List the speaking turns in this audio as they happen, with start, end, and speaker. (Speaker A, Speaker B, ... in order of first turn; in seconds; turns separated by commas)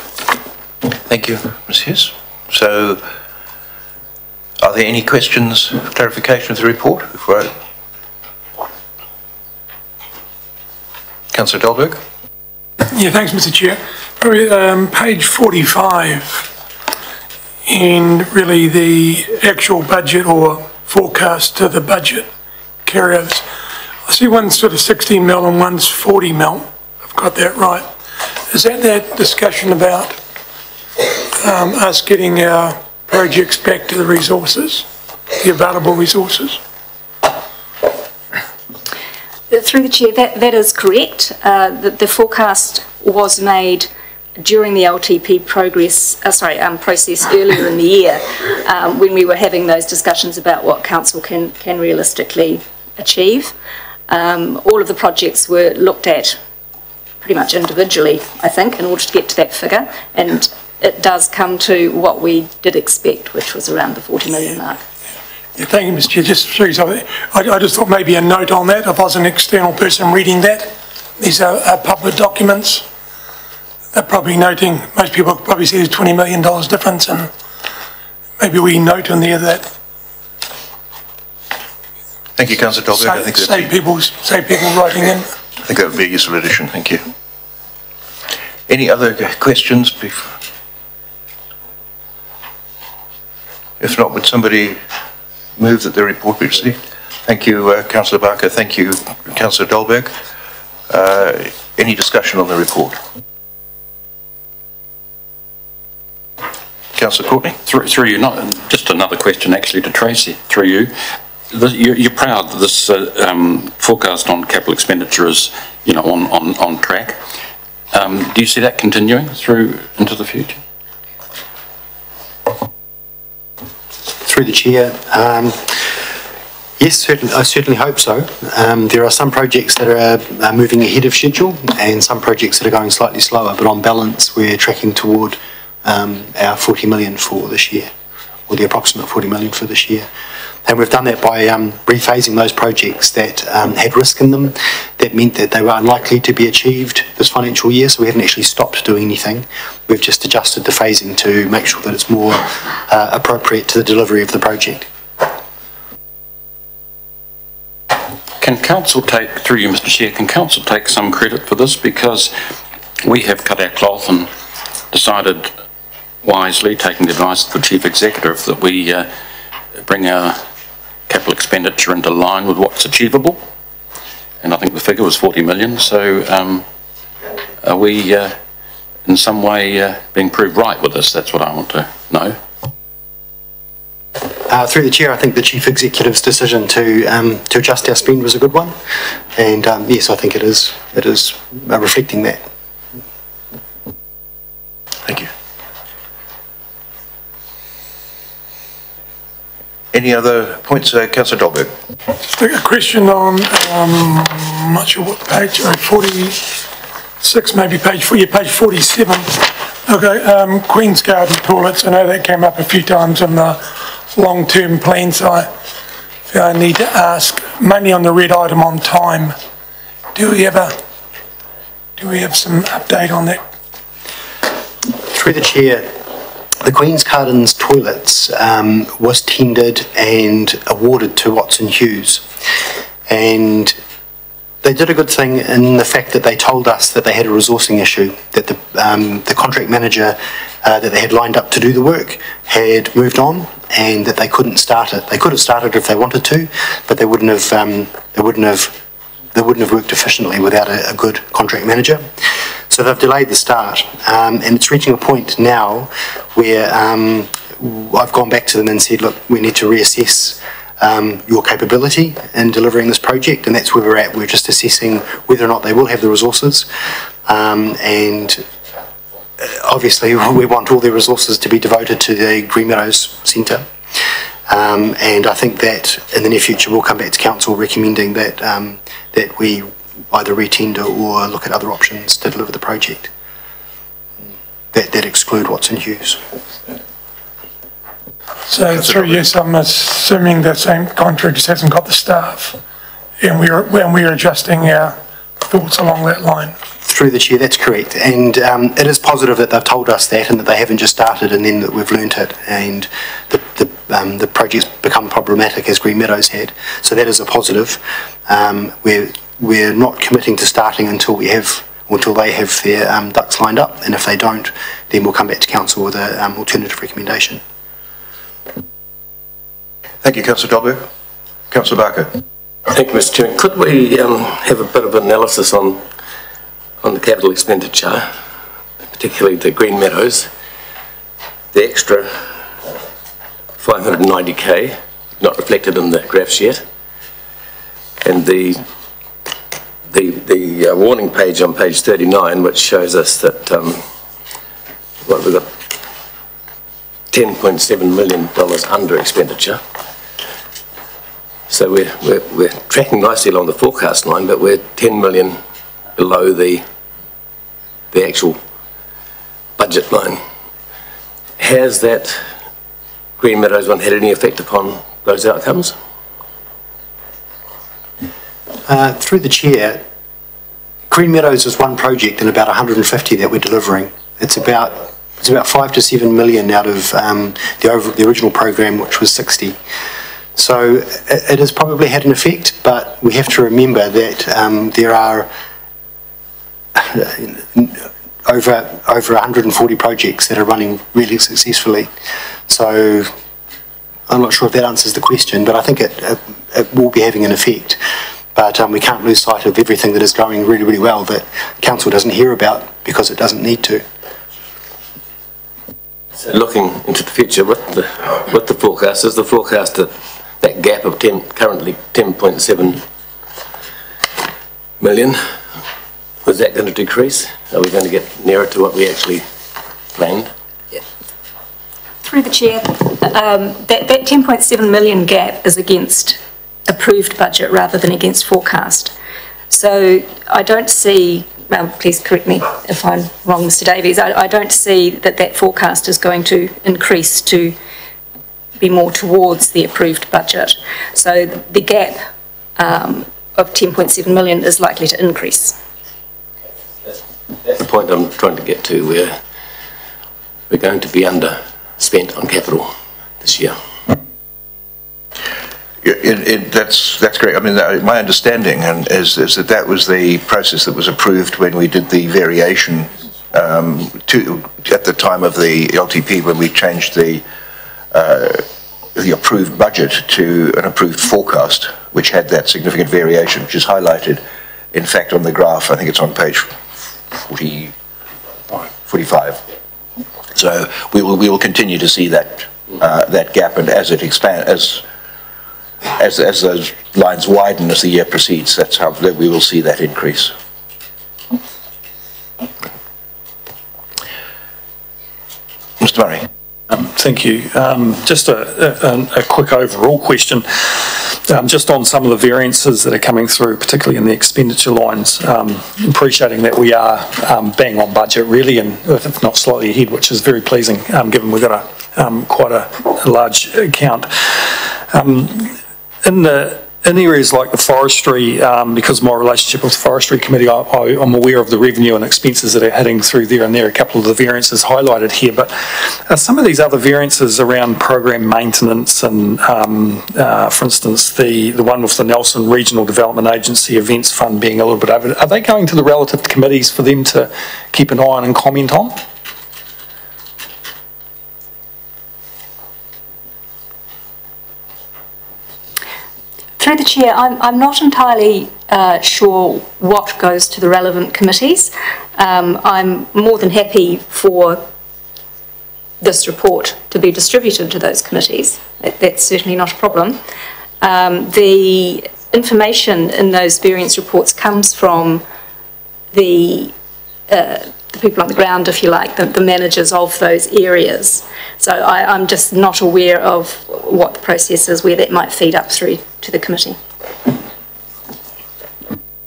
Speaker A: 1.1-3.0, Speaker A: 4.6-7.5, Speaker A: 11.3-12.0, Speaker B: 12.9-16.5, Speaker B: 17.7-22.3, Speaker B: 22.9-23.4, Speaker B: 24.1-27.9, Speaker B: 28.5-30.2, Speaker B: 31.4-34.9, Speaker B: 35.4-36.6, Speaker C: 39.5-53.5, Speaker C: 54.1-56.4, Speaker C: 57.2-64.8, Speaker B: 65.6-72.8, Speaker B: 73.9-77.3, Speaker B: 78.4-79.7, Speaker A: 82.4-83.7, Speaker B: 83.0-85.3, Speaker A: 85.6-87.0, Speaker A: 88.7-90.4, Speaker A: 93.8-94.8, Speaker A: 95.6-100.1, Speaker A: 100.9-103.0, Speaker A: 107.0-107.6, Speaker D: 107.6-110.9, Speaker D: 111.5-117.2, Speaker D: 117.9-120.6, Speaker E: 124.2-126.0, Speaker E: 126.8-137.9, Speaker E: 138.5-140.1, Speaker E: 140.6-154.9, Speaker D: 158.4-162.3, Speaker D: 163.0-164.3, Speaker D: 164.9-165.5, Speaker D: 166.2-169.1, Speaker D: 169.8-170.4, Speaker D: 171.1-173.4, Speaker D: 174.4-176.7, Speaker D: 177.6-178.3, Speaker D: 179.1-182.4, Speaker E: 184.5-188.8, Speaker E: 189.3-192.4, Speaker A: 195.1-195.3, Speaker A: 199.9-201.7, Speaker B: 202.2-206.6, Speaker B: 207.2-215.5, Speaker B: 216.3-219.4, Speaker B: 220.1-220.8, Speaker B: 222.0-223.4, Speaker E: 225.1-226.0, Speaker E: 226.6-232.2, Speaker E: 233.1-233.8, Speaker E: 234.6-248.8, Speaker E: 249.3-252.1, Speaker E: 252.7-266.7, Speaker E: 267.3-268.4, Speaker E: 269.4-283.1, Speaker E: 284.7-286.2, Speaker B: 288.5-292.6, Speaker A: 288.8-289.3, Speaker B: 293.2-296.6, Speaker E: 296.8-317.4, Speaker A: 320.0-320.9, Speaker A: 321.5-322.2, Speaker F: 322.7-325.8, Speaker F: 326.8-328.1, Speaker F: 328.9-330.3, Speaker F: 331.5-332.1, Speaker F: 333.6-336.6, Speaker F: 338.0-338.6, Speaker F: 339.9-343.8, Speaker F: 345.1-345.5, Speaker F: 347.1-349.6, Speaker F: 351.5-355.4, Speaker F: 355.9-356.6, Speaker F: 357.9-358.4, Speaker F: 359.6-360.2, Speaker F: 361.4-362.2, Speaker F: 363.2-365.7, Speaker E: 368.7-369.8, Speaker E: 370.9-379.6, Speaker E: 380.4-385.3, Speaker E: 386.7-391.9, Speaker E: 392.5-393.1, Speaker E: 394.1-397.8, Speaker E: 398.4-403.8, Speaker F: 406.2-412.8, Speaker F: 414.8-415.2, Speaker F: 416.2-419.2, Speaker F: 419.9-420.3, Speaker C: 422.0-428.9, Speaker C: 429.5-437.6, Speaker C: 438.6-442.0, Speaker C: 442.6-445.6, Speaker F: 447.5-449.2, Speaker F: 450.5-453.6, Speaker A: 455.8-467.2, Speaker A: 467.9-474.2, Speaker A: 474.7-476.6, Speaker A: 477.1-477.7, Speaker A: 478.5-479.4, Speaker A: 480.3-484.8, Speaker A: 485.9-490.3, Speaker A: 495.8-496.3, Speaker G: 496.7-539.0, Speaker C: 546.6-554.6, Speaker C: 556.0-560.2, Speaker C: 560.8-565.2, Speaker C: 566.1-566.7, Speaker C: 567.3-576.8